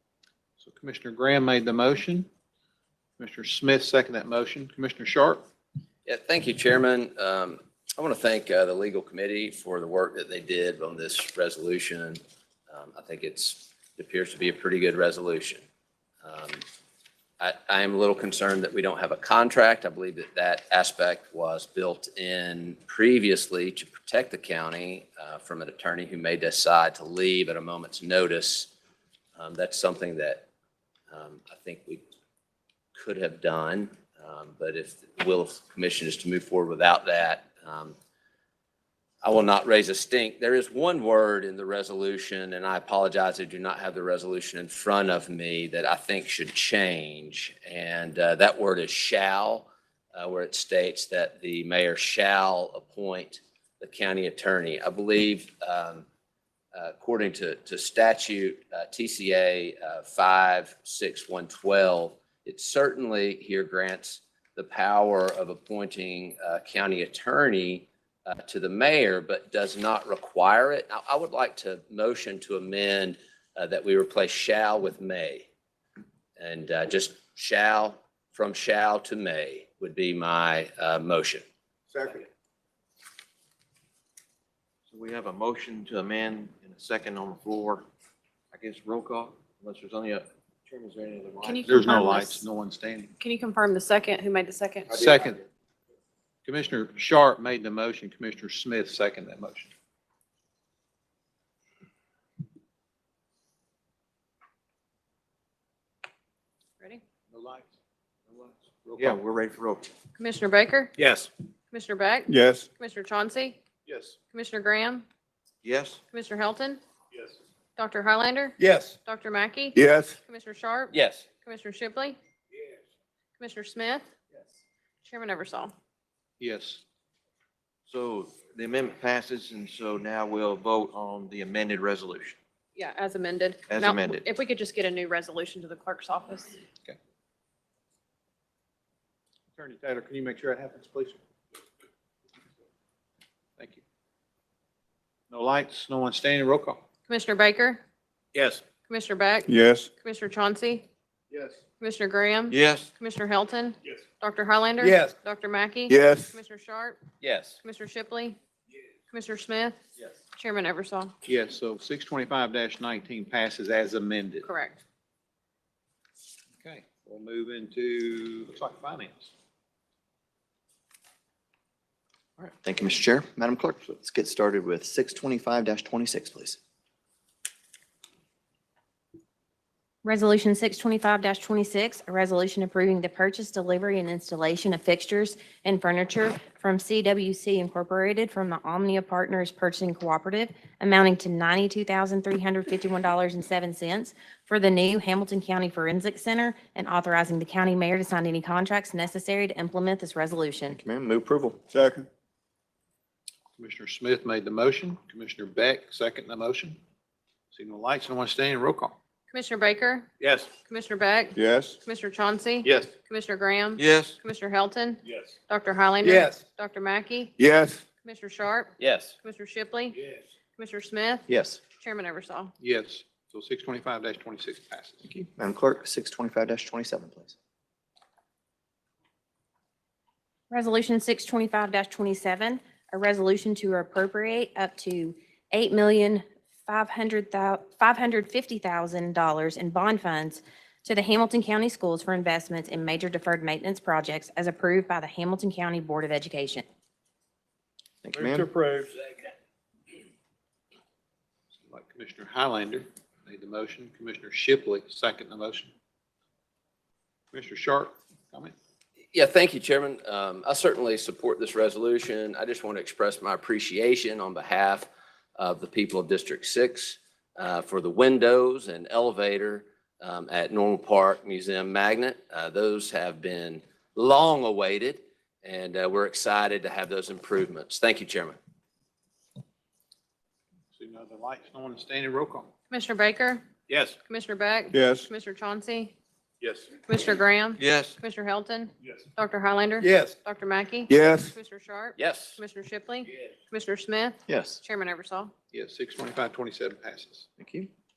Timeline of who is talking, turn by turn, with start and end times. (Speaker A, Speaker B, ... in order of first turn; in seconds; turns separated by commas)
Speaker A: 0.6-2.3, Speaker A: 3.2-5.4, Speaker B: 6.1-15.7, Speaker B: 16.2-16.6, Speaker B: 17.4-28.7, Speaker B: 29.4-30.5, Speaker B: 31.1-32.0, Speaker B: 33.0-38.0, Speaker B: 39.2-56.0, Speaker B: 56.8-75.5, Speaker B: 76.4-81.5, Speaker C: 81.9-82.2, Speaker D: 84.9-87.9, Speaker D: 88.5-92.0, Speaker E: 91.4-92.5, Speaker A: 91.6-93.1, Speaker E: 93.2-95.0, Speaker A: 94.9-95.4, Speaker A: 96.5-99.7, Speaker A: 107.3-107.7, Speaker A: 108.3-109.2, Speaker D: 109.0-109.9, Speaker E: 110.2-110.9, Speaker A: 111.0-111.3, Speaker E: 111.7-113.6, Speaker C: 112.3-112.7, Speaker E: 114.3-115.1, Speaker D: 115.6-116.0, Speaker E: 116.1-116.8, Speaker E: 117.8-119.8, Speaker C: 119.7-120.2, Speaker E: 120.3-122.2, Speaker B: 120.9-121.3, Speaker E: 123.4-124.1, Speaker E: 125.0-125.7, Speaker A: 126.4-126.8, Speaker D: 127.9-132.4, Speaker E: 132.8-136.6, Speaker D: 133.7-134.2, Speaker A: 139.6-141.2, Speaker A: 145.3-146.8, Speaker E: 147.1-147.8, Speaker A: 148.4-148.6, Speaker E: 148.9-149.5, Speaker C: 149.5-149.9, Speaker E: 150.0-150.9, Speaker E: 151.8-157.0, Speaker D: 152.5-152.9, Speaker C: 155.9-156.3, Speaker B: 157.2-157.6, Speaker E: 157.6-158.4, Speaker E: 159.1-159.8, Speaker E: 160.4-161.1, Speaker A: 161.3-164.5, Speaker E: 164.4-164.8, Speaker A: 166.6-169.3, Speaker F: 172.6-176.6, Speaker G: 180.0-200.8, Speaker F: 200.7-201.6, Speaker C: 201.7-202.1, Speaker A: 203.6-206.8, Speaker A: 207.5-209.0, Speaker E: 209.3-217.3, Speaker A: 210.2-210.5, Speaker C: 211.4-211.8, Speaker D: 213.8-214.2, Speaker C: 217.4-217.8, Speaker E: 218.0-220.0, Speaker B: 218.8-219.2, Speaker E: 220.6-221.3, Speaker F: 221.3-221.6, Speaker E: 221.8-222.5, Speaker A: 222.6-225.2, Speaker F: 225.1-227.3, Speaker G: 230.5-246.6, Speaker F: 248.0-248.5, Speaker C: 248.2-248.9, Speaker A: 251.6-255.7, Speaker A: 257.3-258.6, Speaker B: 259.1-278.4, Speaker A: 280.7-282.5, Speaker E: 282.7-283.5, Speaker A: 283.7-283.9, Speaker E: 284.1-285.9, Speaker C: 284.7-285.1, Speaker E: 286.8-295.3, Speaker D: 287.6-288.0, Speaker C: 290.9-291.4, Speaker B: 292.0-292.4, Speaker F: 294.3-294.6, Speaker A: 295.5-297.3, Speaker F: 297.4-297.7